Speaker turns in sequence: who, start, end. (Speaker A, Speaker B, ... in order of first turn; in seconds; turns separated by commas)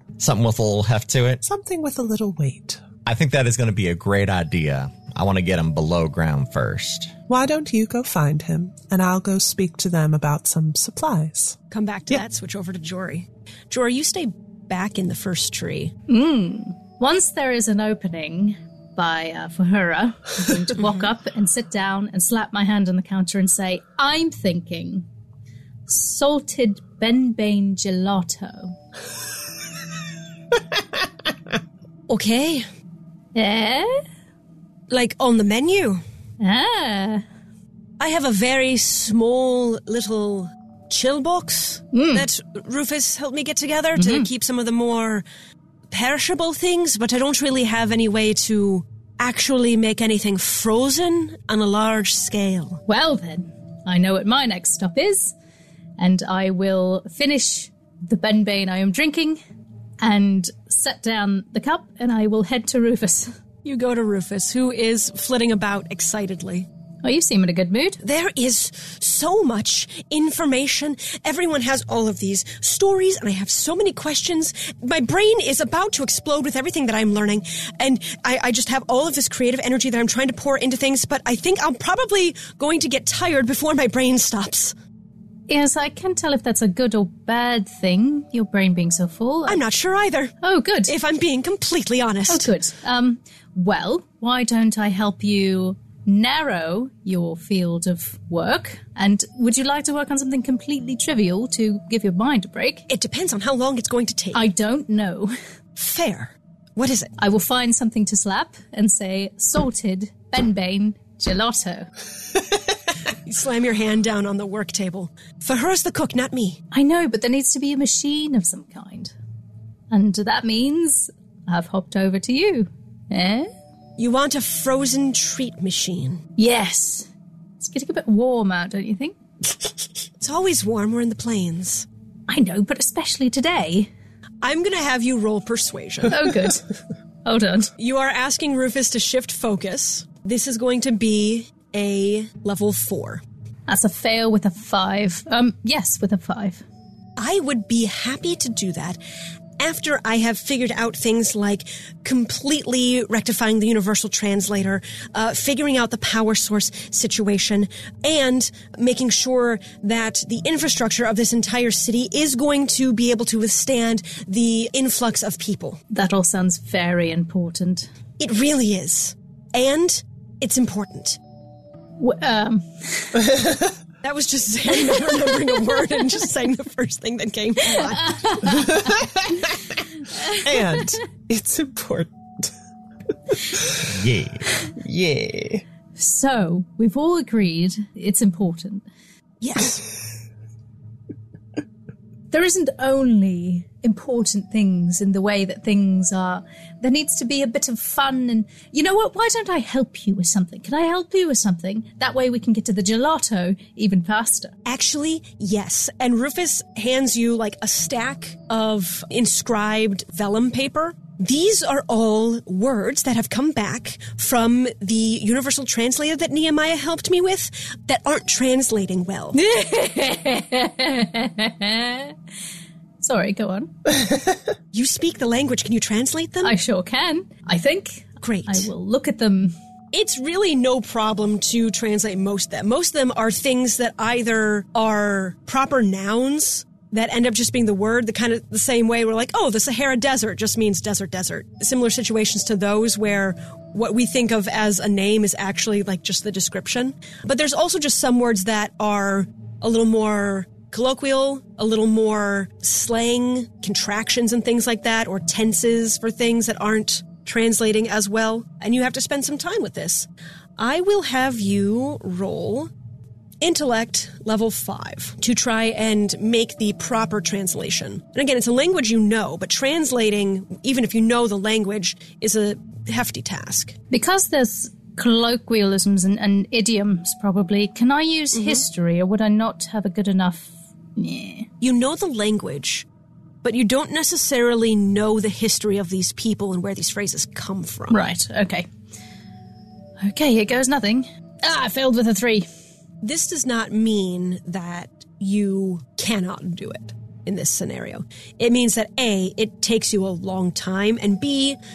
Speaker A: 0.2-1.4, Speaker B: 1.4-2.8, Speaker A: 3.0-7.1, Speaker B: 7.3-11.6, Speaker C: 11.7-15.9, Speaker D: 16.1-25.0, Speaker C: 20.8-21.1, Speaker D: 25.9-28.7, Speaker C: 32.1-32.6, Speaker D: 33.3-34.0, Speaker C: 34.9-36.0, Speaker D: 36.4-37.2, Speaker C: 38.0-45.2, Speaker D: 41.9-42.2, Speaker D: 44.0-44.3, Speaker C: 45.9-52.8, Speaker D: 52.9-55.3, Speaker D: 56.0-59.4, Speaker D: 60.0-63.3, Speaker C: 63.6-66.7, Speaker D: 67.0-68.0, Speaker C: 68.0-84.7, Speaker D: 85.5-89.6, Speaker C: 89.5-90.3, Speaker D: 90.4-90.9, Speaker C: 90.8-92.5, Speaker D: 92.3-102.8, Speaker C: 102.9-104.4, Speaker D: 104.3-105.3, Speaker C: 105.8-107.1, Speaker D: 107.2-111.9, Speaker C: 113.1-116.6, Speaker D: 116.7-119.1, Speaker D: 119.9-123.5, Speaker C: 124.0-126.2, Speaker D: 126.4-127.1, Speaker D: 127.6-129.2, Speaker C: 130.2-131.8, Speaker D: 132.3-133.9, Speaker C: 134.4-136.2, Speaker D: 136.1-136.6, Speaker D: 137.2-137.7, Speaker C: 137.8-143.2, Speaker D: 143.7-146.6, Speaker C: 147.2-149.0, Speaker C: 149.6-165.8, Speaker D: 165.9-167.9, Speaker C: 168.2-171.2, Speaker D: 172.0-173.3, Speaker B: 173.3-173.6, Speaker C: 174.0-178.4, Speaker D: 174.9-175.2, Speaker D: 177.7-178.7, Speaker B: 178.5-179.8, Speaker D: 180.1-180.8, Speaker B: 180.4-182.5, Speaker B: 183.5-183.8, Speaker A: 183.8-184.4, Speaker B: 184.8-185.6, Speaker D: 186.0-188.8, Speaker C: 189.4-189.8, Speaker D: 192.3-204.5, Speaker C: 204.6-219.4, Speaker D: 219.3-222.2, Speaker D: 223.0-223.7, Speaker C: 224.7-226.5, Speaker D: 226.4-229.5, Speaker C: 228.2-228.7, Speaker C: 229.9-262.7, Speaker C: 263.4-273.8, Speaker D: 273.9-281.5, Speaker C: 278.3-278.6, Speaker C: 281.6-282.9, Speaker C: 283.4-288.0, Speaker D: 287.9-288.7, Speaker D: 290.0-292.4, Speaker C: 293.0-301.6